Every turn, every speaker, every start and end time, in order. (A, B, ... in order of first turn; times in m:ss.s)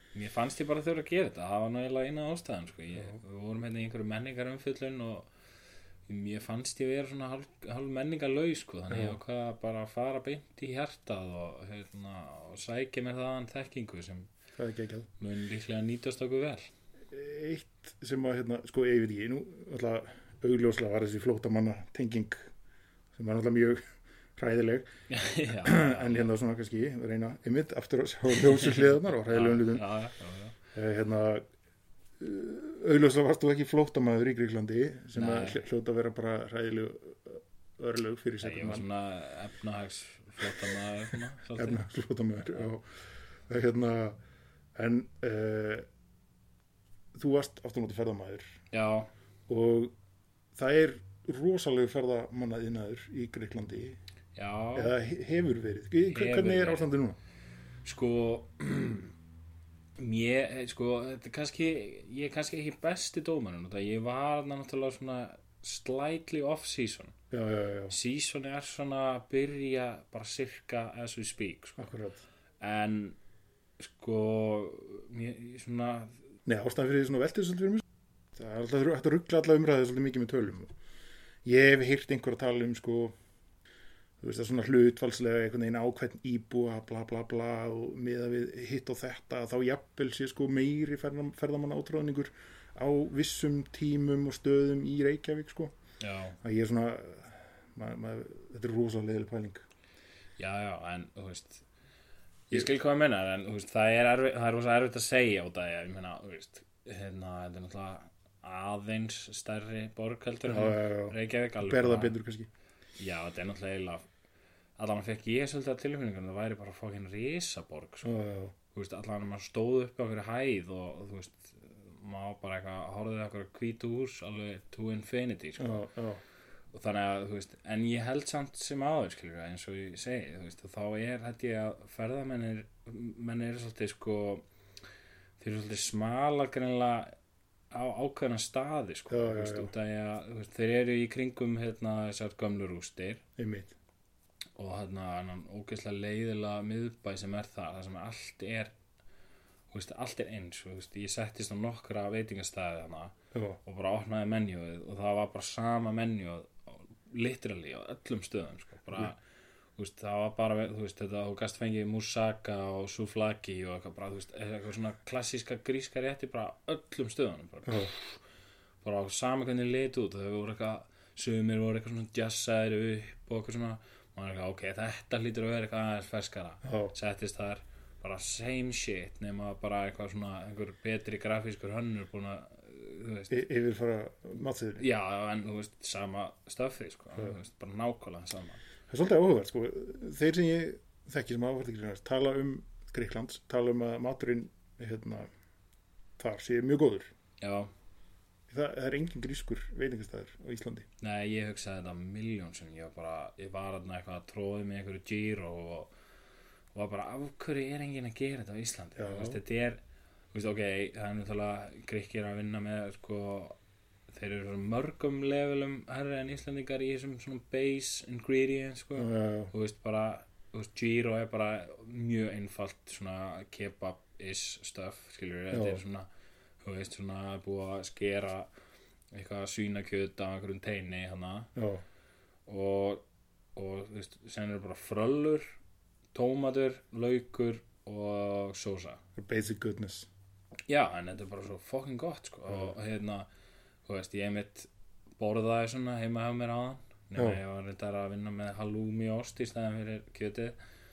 0:00.2-0:05.3 A
0:06.1-0:14.3 A
0:08.9-0:09.2 B
0:14.6-0:15.1 B
0:15.2-0:16.7 A
0:17.1-0:22.5 B
0:23.2-0:23.8 B
0:24.4-0:24.9 B
0:25.1-0:26.3 A
0:25.6-0:29.8 B
0:29.3-0:30.6 A
0:30.7-0:31.5 B
0:32.2-0:38.9 B
0:35.2-0:35.6 A
0:38.4-0:41.8 A
0:41.6-0:43.0 B
0:43.5-0:44.2 B
0:44.8-0:45.9 B
0:47.1-0:48.6 B
0:48.7-0:49.1 A
0:49.5-0:50.0 B
0:50.6-0:54.0 B
0:54.4-0:54.9 A
0:54.8-0:57.2 B
0:56.1-0:56.9 A
0:57.8-0:59.1 A
1:00.0-1:07.2 A
1:07.3-1:08.0 B
1:07.9-1:11.9 A
1:11.8-1:12.3 B
1:12.6-1:13.2 A
1:13.8-1:16.2 A
1:16.5-1:20.7 B
1:21.4-1:23.2 B
1:24.2-1:35.8 B
1:36.0-1:36.4 A
1:36.4-1:39.6 B
1:40.4-1:41.6 A
1:42.5-1:52.2 A
1:50.5-1:52.5 B
1:53.0-1:54.1 A
1:54.8-1:58.2 A
1:58.0-1:58.6 B
1:58.7-2:05.8 A
2:05.6-2:06.2 B
2:06.7-2:14.4 A
2:15.4-2:17.1 A
2:17.7-2:23.2 A
2:19.1-2:19.7 B
2:23.4-2:23.7 B
2:24.6-2:28.7 A
2:29.7-2:39.2 A
2:33.3-2:33.6 B
2:39.8-2:48.2 A
2:47.7-2:47.9 B
2:48.8-3:03.4 A
2:56.6-2:56.9 B
3:03.3-3:04.8 B
3:04.8-3:08.6 A
3:08.9-3:15.3 B
3:16.2-3:17.1 B
3:17.4-3:17.7 A
3:18.5-3:20.9 B
3:21.0-3:25.9 A
3:26.7-3:29.8 A
3:29.0-3:29.4 B
3:30.3-3:33.6 A
3:34.1-3:46.1 A
3:39.0-3:39.5 B
3:45.5-3:45.8 B
3:46.6-3:48.5 A
3:49.1-3:51.5 A
3:51.6-3:51.8 B
3:52.5-3:53.0 A
3:53.6-3:55.6 A
3:56.1-3:59.0 A
3:59.2-4:00.1 B
4:00.7-4:03.3 A
4:02.5-4:02.7 B
4:03.9-4:04.7 A
4:05.2-4:10.6 A